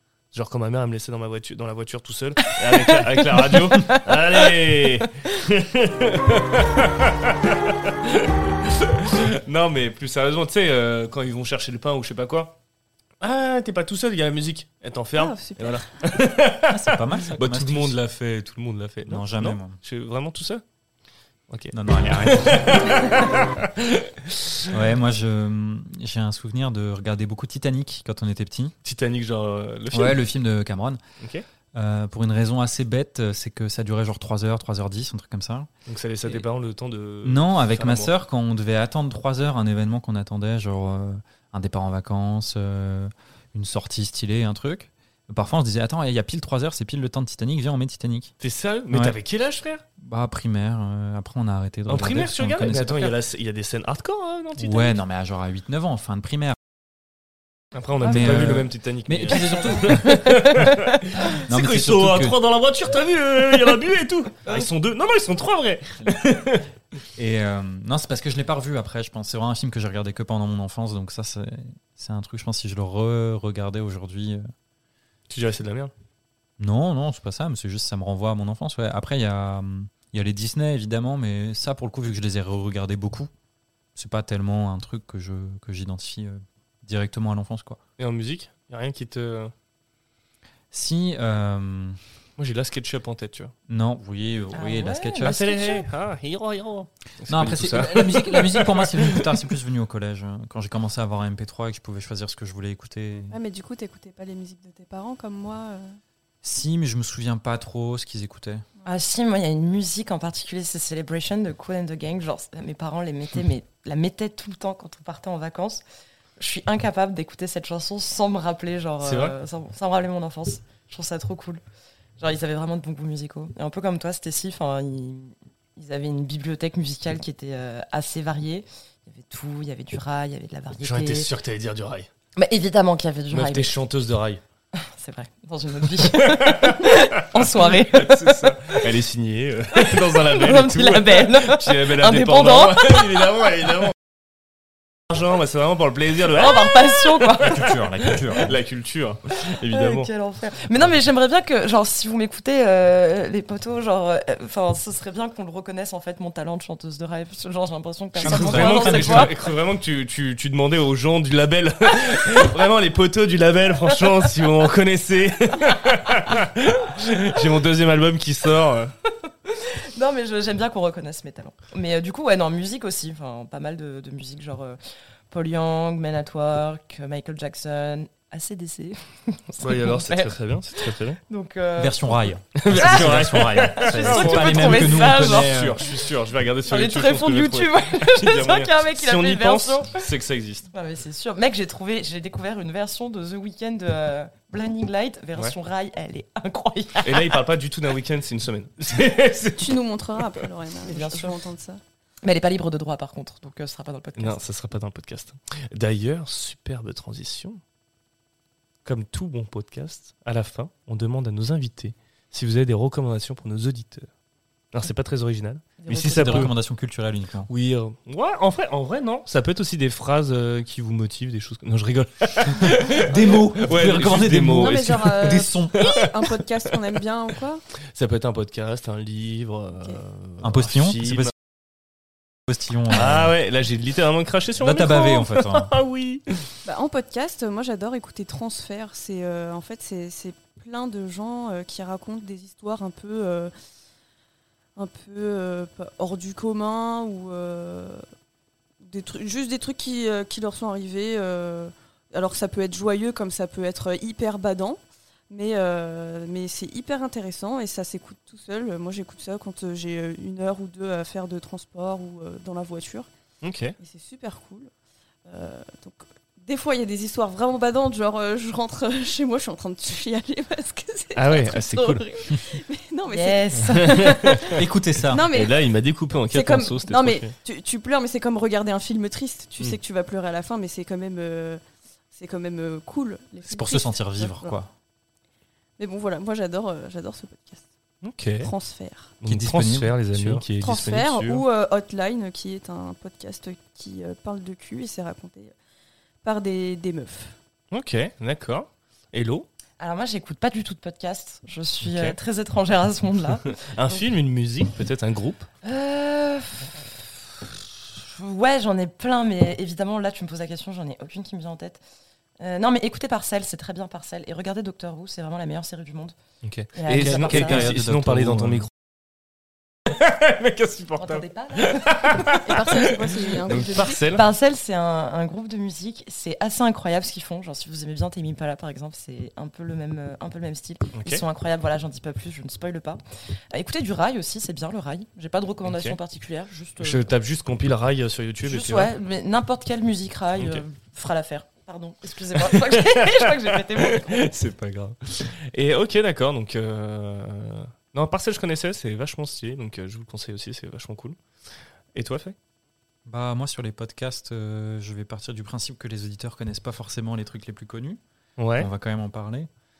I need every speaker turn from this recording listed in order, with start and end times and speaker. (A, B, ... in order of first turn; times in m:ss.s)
0:00.3-0:12.6 A
0:13.2-0:20.6 A
0:15.2-0:15.9 B
0:16.7-0:18.0 C
0:19.1-0:19.8 C
0:21.5-0:24.7 A
0:21.7-0:23.0 C
0:24.7-0:28.7 C
0:28.8-0:30.3 A
0:29.9-0:31.0 C
0:31.2-0:31.5 A
0:31.7-0:35.7 C
0:35.9-0:38.1 A
0:37.2-0:48.3 C
0:48.4-0:49.8 A
0:48.9-0:49.2 C
0:50.0-0:53.1 C
0:51.9-0:55.0 A
0:54.6-0:56.6 C
0:57.7-1:06.7 A
0:58.0-1:00.7 C
1:00.1-1:00.5 D
1:01.3-1:02.4 C
1:07.2-1:14.4 C
1:15.3-1:15.9 A
1:16.6-1:23.3 C
1:24.0-1:27.8 C
1:28.0-1:29.5 A
1:30.7-1:32.0 C
1:32.4-1:33.5 A
1:33.7-1:35.5 C
1:34.5-1:35.8 D
1:35.2-1:39.3 A
1:37.3-1:43.4 C
1:43.3-1:46.0 B
1:46.4-1:48.6 C
1:48.8-1:55.8 D
1:56.4-2:01.6 D
1:59.0-1:59.4 A
2:02.2-2:11.3 D
2:10.8-2:12.1 A
2:12.4-2:13.7 D
2:13.3-2:14.4 A
2:14.7-2:18.8 D
2:16.0-2:24.0 A
2:19.9-2:23.3 D
2:25.1-2:27.7 A
2:26.3-2:27.8 D
2:27.4-2:28.6 C
2:28.4-2:30.1 A
2:29.4-2:39.3 D
2:38.2-2:39.5 C
2:38.2-2:48.9 A
2:49.1-2:54.8 D
2:55.3-3:05.6 D
2:59.6-3:01.2 A
3:01.8-3:05.9 C
3:02.6-3:10.7 A
3:06.6-3:10.1 D
3:10.7-3:17.4 D
3:17.0-3:20.5 A
3:19.6-3:21.8 B
3:20.8-3:21.4 D
3:22.2-3:24.4 D
3:24.2-3:27.6 A
3:28.8-3:34.1 A
3:34.7-3:36.6 A
3:35.9-3:37.5 C
3:35.9-3:36.5 B
3:37.5-3:46.4 A
3:43.0-3:45.8 C
3:44.5-3:47.6 B
3:47.9-3:51.3 A
3:50.4-3:51.3 C
3:52.5-3:53.3 C
3:52.9-3:56.5 A
3:54.6-3:55.7 C
3:56.6-4:03.5 B
4:04.8-4:08.0 B
4:08.8-4:23.1 B
4:23.4-4:23.8 A
4:23.8-4:24.7 B
4:25.3-4:35.6 B
4:31.2-4:32.0 A
4:33.1-4:34.3 D
4:33.7-4:34.6 A
4:34.5-4:35.3 C
4:35.2-4:37.3 A
4:36.3-4:41.6 B
4:42.1-4:44.6 B
4:43.5-4:44.7 C
4:45.8-4:47.6 B
4:48.0-4:48.5 A
4:48.4-4:49.2 B
4:49.2-4:51.4 A
4:49.3-4:50.4 C
4:50.6-4:55.6 B
4:56.2-4:57.4 B
4:57.7-4:59.5 A
4:59.8-5:03.5 D
5:01.8-5:02.2 A
5:03.5-5:05.5 A
5:05.6-5:11.8 D
5:12.4-5:16.2 D
5:16.4-5:18.7 A
5:16.7-5:17.7 D
5:16.9-5:18.7 C
5:19.9-5:24.2 A
5:21.0-5:22.4 D
5:22.4-5:24.1 B
5:24.1-5:37.1 D
5:30.9-5:31.2 A
5:35.6-5:36.0 A
5:36.8-5:38.9 A
5:38.4-5:44.3 D
5:40.4-5:40.6 A
5:42.4-5:51.2 A
5:52.0-5:52.4 A
5:53.1-5:58.0 C
5:58.4-5:58.7 A
5:58.6-5:59.5 C